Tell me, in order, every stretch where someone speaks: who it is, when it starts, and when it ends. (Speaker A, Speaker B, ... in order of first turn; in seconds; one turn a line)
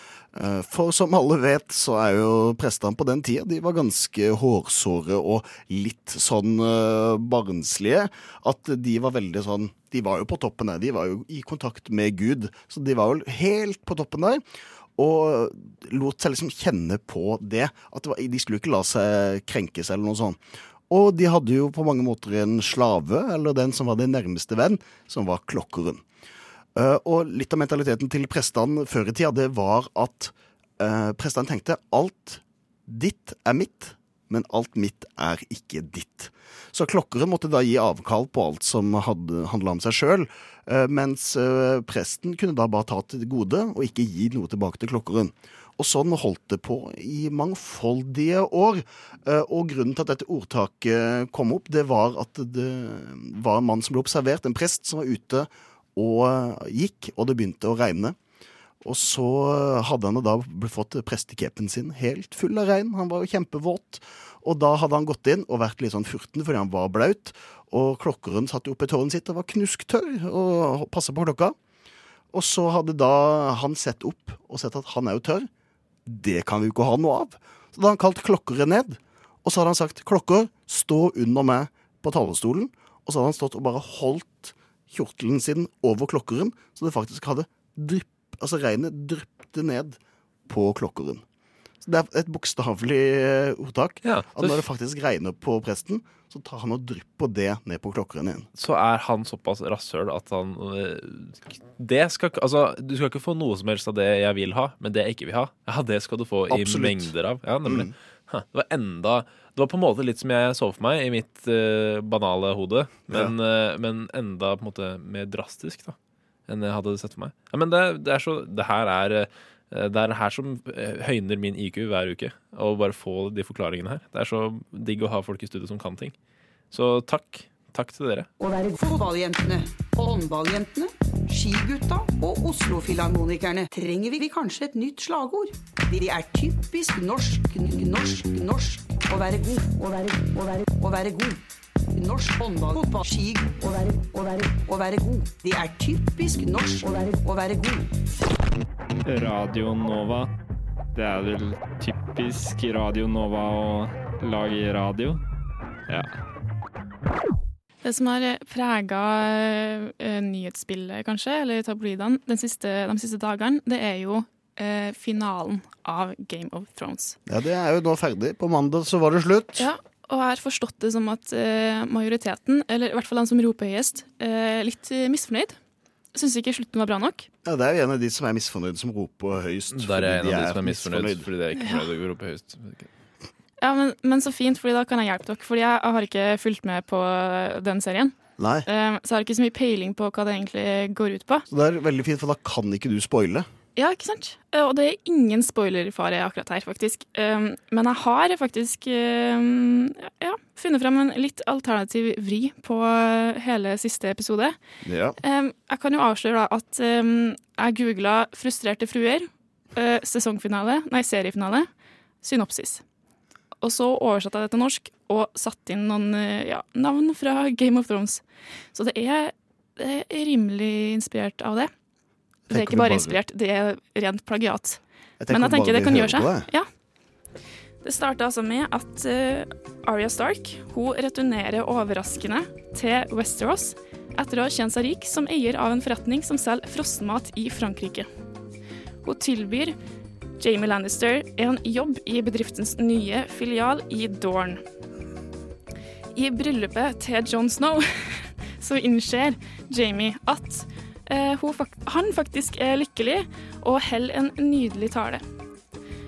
Speaker A: 0.3-14.4
Speaker A: 15.0-20.4
Speaker A: 20.9-26.0
Speaker A: 26.8-58.2
Speaker A: 58.8-71.5
Speaker A: 72.3-75.5
Speaker A: 76.1-91.2
Speaker A: 91.8-98.5
Speaker B: 94.0-94.7
Speaker B: 98.6-116.0
Speaker A: 106.5-107.1
Speaker A: 107.7-107.9
Speaker A: 113.1-113.3
Speaker B: 116.5-126.1
Speaker B: 126.7-128.3
Speaker C: 128.4-141.4
Speaker C: 141.9-147.9
Speaker D: 149.1-150.2
Speaker D: 151.0-153.3
Speaker D: 154.3-155.0
Speaker E: 157.8-167.2
Speaker A: 167.3-169.7
Speaker E: 169.6-175.6
Speaker E: 176.1-177.3
Speaker A: 177.4-181.3
Speaker B: 179.7-182.9
Speaker E: 183.6-191.5
Speaker A: 188.4-188.7
Speaker A: 191.5-193.5
Speaker E: 193.8-204.6
Speaker A: 204.8-205.2
Speaker E: 205.2-211.7
Speaker E: 212.2-212.8
Speaker E: 213.6-218.2
Speaker E: 218.7-221.7
Speaker A: 222.5-223.2
Speaker E: 222.5-226.7
Speaker A: 225.2-226.5
Speaker E: 227.8-238.1
Speaker E: 239.0-239.8
Speaker E: 240.4-244.6
Speaker E: 246.2-255.2